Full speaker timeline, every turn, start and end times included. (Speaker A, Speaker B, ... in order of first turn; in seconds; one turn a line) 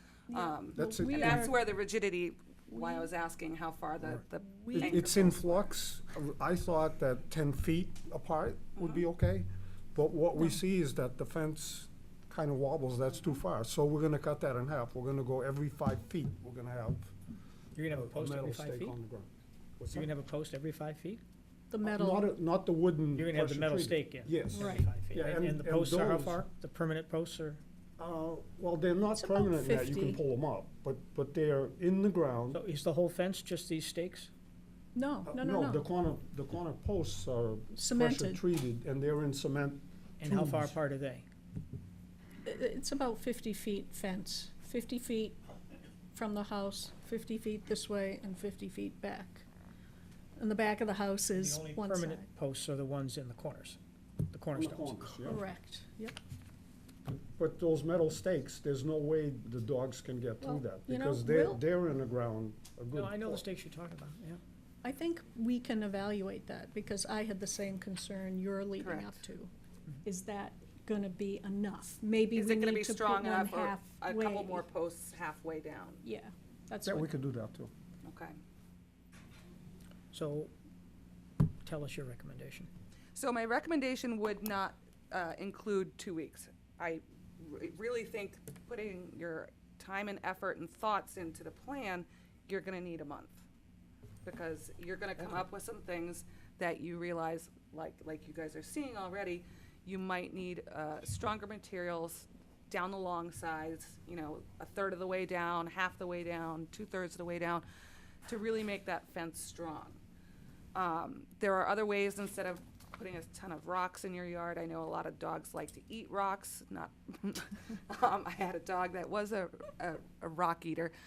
Speaker A: 0.3-1.6
Speaker B: 0.3-5.7
Speaker C: 0.7-1.5
Speaker A: 2.7-3.1
Speaker A: 4.6-5.0
Speaker C: 4.7-17.1
Speaker D: 17.8-19.0
Speaker C: 17.9-20.1
Speaker D: 19.9-21.2
Speaker A: 21.7-22.2
Speaker C: 21.8-26.4
Speaker D: 23.2-27.6
Speaker A: 24.5-24.9
Speaker C: 28.0-32.6
Speaker A: 29.2-30.2
Speaker D: 32.5-34.3
Speaker A: 35.0-35.9
Speaker C: 35.3-40.7
Speaker A: 37.8-38.4
Speaker D: 40.2-41.3
Speaker A: 42.5-45.4
Speaker A: 46.1-49.5
Speaker A: 50.4-52.3
Speaker D: 51.3-53.8
Speaker D: 54.3-55.2
Speaker C: 54.5-55.4
Speaker A: 55.3-56.2
Speaker C: 57.1-63.5
Speaker A: 60.4-61.6
Speaker D: 62.9-64.4
Speaker A: 64.8-69.5
Speaker B: 68.8-69.2
Speaker A: 70.0-74.7
Speaker B: 72.3-76.0
Speaker A: 76.0-77.1
Speaker C: 76.8-77.7
Speaker B: 78.0-78.4
Speaker D: 80.1-80.5
Speaker D: 81.6-82.7
Speaker B: 83.2-93.5
Speaker B: 94.2-107.7
Speaker B: 108.3-110.0
Speaker B: 110.8-120.9